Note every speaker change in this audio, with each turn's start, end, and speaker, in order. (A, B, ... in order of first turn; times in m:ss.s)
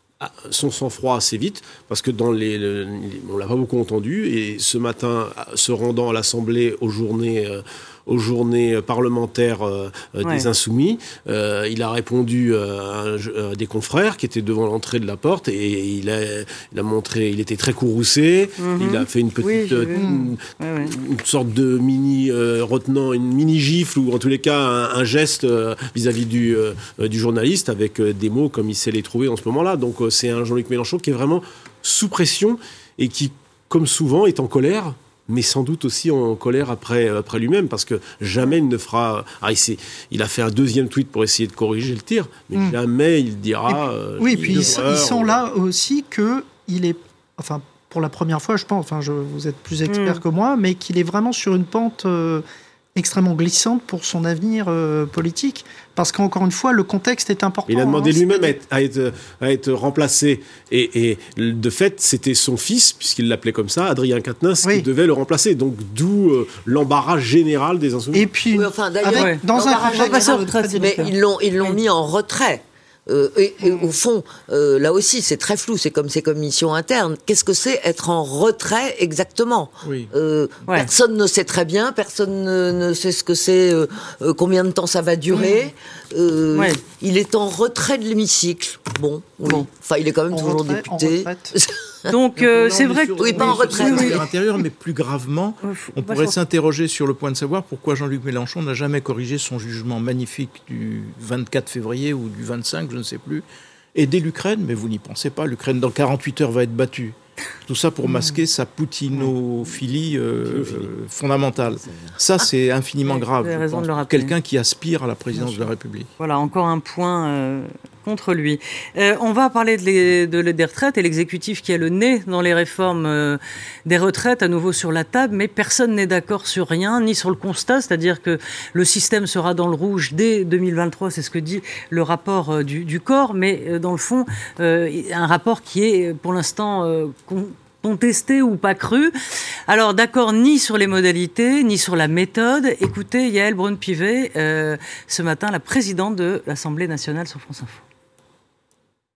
0:00.2-0:45.4 A
0:18.6-0:20.1 B
0:19.9-0:20.3 C
0:20.6-0:20.9 B
0:43.7-0:52.4 C
0:49.9-0:50.2 B
0:53.0-0:58.6 C
0:57.7-1:08.3 A
1:08.1-1:11.1 C
1:08.5-1:32.1 D
1:09.1-1:11.8 B
1:19.8-1:20.1 E
1:26.6-1:26.8 B
1:30.3-1:31.6 C
1:32.1-1:34.2 B
1:32.4-1:56.1 E
1:33.2-1:34.3 D
1:35.6-1:36.4 B
1:50.4-1:50.9 A
1:53.1-1:54.3 B
1:56.2-2:19.1 B
2:19.7-2:27.8 B